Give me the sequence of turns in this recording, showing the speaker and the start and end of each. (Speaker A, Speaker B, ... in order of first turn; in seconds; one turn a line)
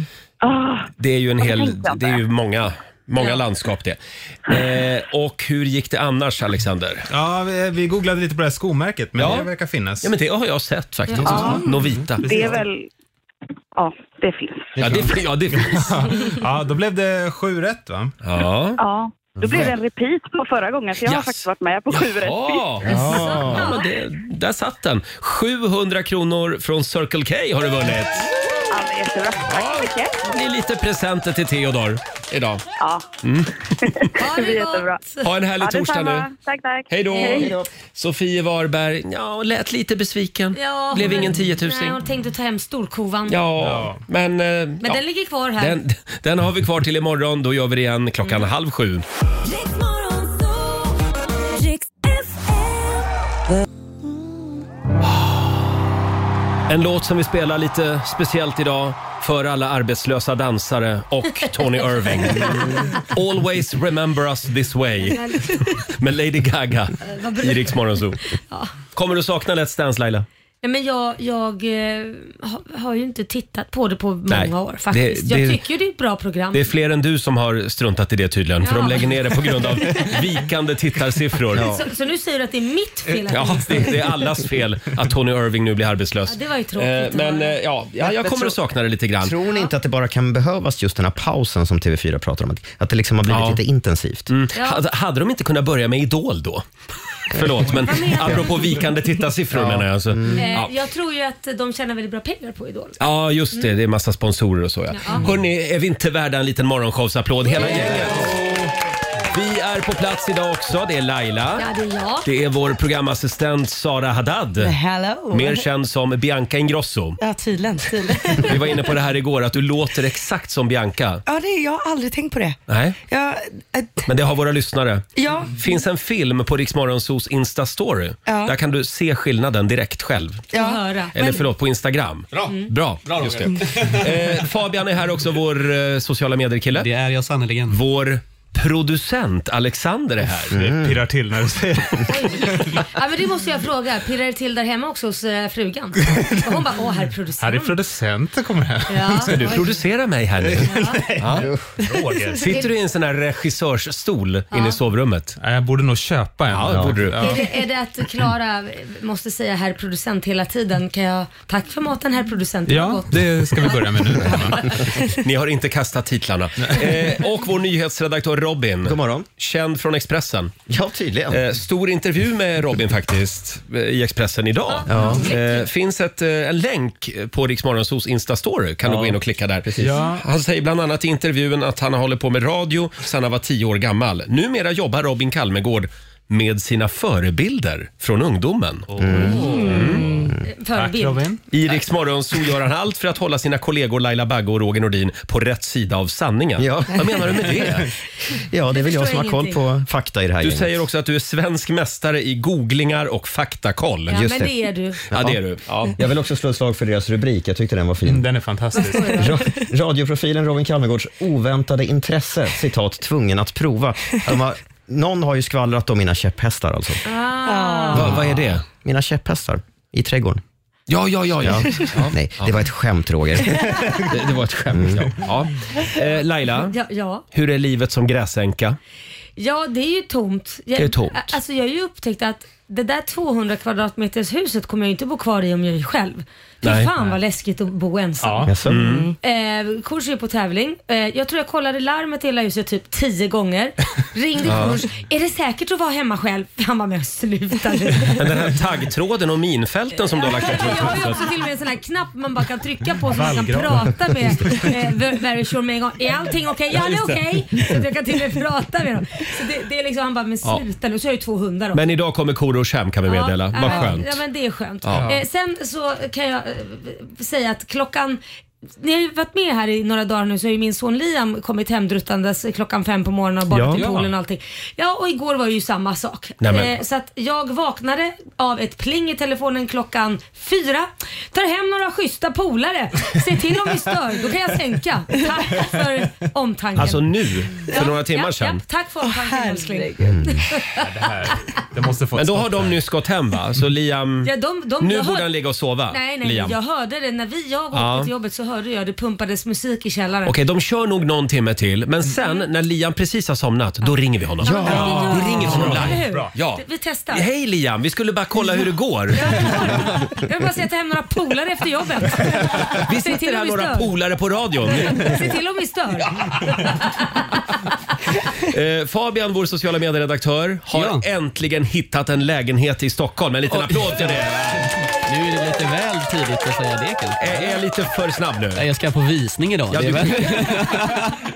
Speaker A: 0.4-0.9
Speaker B: 1.0-7.1
Speaker A: 1.4-2.2
Speaker C: 7.1-10.1
Speaker B: 9.2-9.5
Speaker B: 10.0-12.2
Speaker C: 11.2-12.6
Speaker A: 11.3-11.6
Speaker A: 12.2-12.9
Speaker A: 13.8-15.0
Speaker C: 14.8-18.1
Speaker B: 14.8-16.2
Speaker B: 18.2-18.8
Speaker A: 18.8-22.7
Speaker D: 19.4-19.7
Speaker B: 21.1-28.3
Speaker D: 22.8-23.8
Speaker E: 22.9-23.9
Speaker A: 28.7-30.2
Speaker B: 29.5-32.6
Speaker A: 32.8-33.1
Speaker B: 33.2-33.5
Speaker A: 33.8-35.0
Speaker E: 34.2-35.3
Speaker B: 35.2-36.3
Speaker A: 35.6-37.5
Speaker B: 36.9-42.0
Speaker D: 37.2-37.7
Speaker E: 40.6-43.4
Speaker B: 43.3-45.0
Speaker C: 43.6-44.0
Speaker E: 44.8-45.8
Speaker B: 45.6-49.0
Speaker F: 49.5-50.9
Speaker F: 51.5-53.0
Speaker B: 55.1-55.4
Speaker B: 56.7-68.2
Speaker E: 65.1-65.7
Speaker E: 67.0-67.8
Speaker B: 69.0-70.3
Speaker E: 70.6-76.7
Speaker B: 74.3-75.6
Speaker B: 76.5-81.8
Speaker E: 78.6-79.1
Speaker E: 79.9-80.1
Speaker D: 81.5-81.8
Speaker E: 81.6-84.0
Speaker B: 83.3-89.4
Speaker E: 86.3-87.6
Speaker D: 88.0-88.5
Speaker D: 89.2-94.3
Speaker B: 93.3-93.6
Speaker B: 94.3-96.7
Speaker E: 94.6-94.8
Speaker B: 97.3-100.7
Speaker E: 97.8-98.6
Speaker D: 99.5-100.5
Speaker E: 100.4-103.0
Speaker B: 103.0-108.7
Speaker E: 104.9-105.3
Speaker E: 107.5-108.1
Speaker B: 109.3-111.7
Speaker E: 111.6-112.3
Speaker B: 112.2-114.7
Speaker F: 114.6-115.7
Speaker B: 115.3-117.2
Speaker F: 117.2-118.8
Speaker B: 118.4-121.2
Speaker F: 121.3-122.6
Speaker B: 122.7-123.0
Speaker F: 123.1-124.1
Speaker B: 124.1-130.5
Speaker F: 125.2-125.5
Speaker F: 128.3-128.5
Speaker F: 130.5-131.4
Speaker E: 130.5-131.2
Speaker B: 131.2-136.9
Speaker G: 132.3-134.1
Speaker G: 136.7-137.8
Speaker B: 137.7-140.5
Speaker D: 140.5-141.0
Speaker C: 140.6-142.8
Speaker E: 142.1-147.8
Speaker C: 147.4-149.7
Speaker E: 148.9-149.6
Speaker B: 149.3-151.5
Speaker C: 150.4-152.6
Speaker E: 150.7-151.1
Speaker D: 151.4-151.8
Speaker B: 152.4-155.4
Speaker E: 154.5-154.8
Speaker C: 155.4-157.4
Speaker B: 156.5-157.4
Speaker D: 156.7-157.0
Speaker E: 157.2-164.3
Speaker C: 162.7-164.8
Speaker B: 165.1-170.6
Speaker D: 168.8-169.3
Speaker D: 170.7-171.4
Speaker B: 171.3-188.9
Speaker E: 174.7-175.7
Speaker D: 174.9-175.3
Speaker D: 179.7-180.0
Speaker C: 179.8-180.2
Speaker C: 188.9-191.4
Speaker D: 189.0-189.6
Speaker B: 189.7-190.1
Speaker E: 190.4-191.2
Speaker B: 191.5-197.9
Speaker D: 196.6-197.9
Speaker D: 198.5-200.8
Speaker E: 198.7-199.6
Speaker B: 200.4-204.2
Speaker E: 204.1-205.0
Speaker D: 204.1-204.6
Speaker D: 205.1-205.4
Speaker B: 205.1-205.9
Speaker D: 205.9-208.3
Speaker C: 208.1-209.3
Speaker E: 208.8-209.4
Speaker D: 209.0-217.0
Speaker E: 217.1-218.1
Speaker F: 217.4-218.2
Speaker B: 217.9-218.6
Speaker D: 218.8-220.4
Speaker B: 220.9-222.5
Speaker D: 221.4-224.1
Speaker B: 224.0-226.7
Speaker D: 224.7-225.1
Speaker E: 226.6-227.2
Speaker B: 227.3-228.8
Speaker E: 229.4-238.5
Speaker B: 230.8-231.4
Speaker B: 236.6-236.9
Speaker C: 238.2-238.6
Speaker D: 238.4-239.0
Speaker B: 238.7-239.1
Speaker E: 239.2-248.2
Speaker B: 244.4-244.8
Speaker B: 248.1-251.2
Speaker E: 250.1-261.8
Speaker C: 253.1-254.8
Speaker B: 256.7-257.2
Speaker B: 261.7-264.2
Speaker E: 263.1-268.2
Speaker B: 264.8-265.1
Speaker E: 268.8-291.1
Speaker B: 273.6-273.9
Speaker C: 273.7-274.1
Speaker B: 276.4-276.8
Speaker B: 286.8-288.6
Speaker F: 289.0-290.2
Speaker D: 290.0-290.4
Speaker C: 290.8-292.8
Speaker B: 292.1-296.6
Speaker E: 294.2-295.3
Speaker E: 295.9-300.4
Speaker B: 297.7-298.1
Speaker B: 300.2-309.6
Speaker E: 302.2-302.5
Speaker E: 303.8-307.3
Speaker D: 304.5-304.9
Speaker C: 304.6-306.3
Speaker E: 309.1-313.9
Speaker B: 312.7-315.2
Speaker E: 314.7-317.4
Speaker B: 318.4-324.7
Speaker G: 320.7-321.1
Speaker G: 323.5-327.6
Speaker B: 327.2-328.6
Speaker G: 328.6-331.1
Speaker B: 329.7-330.8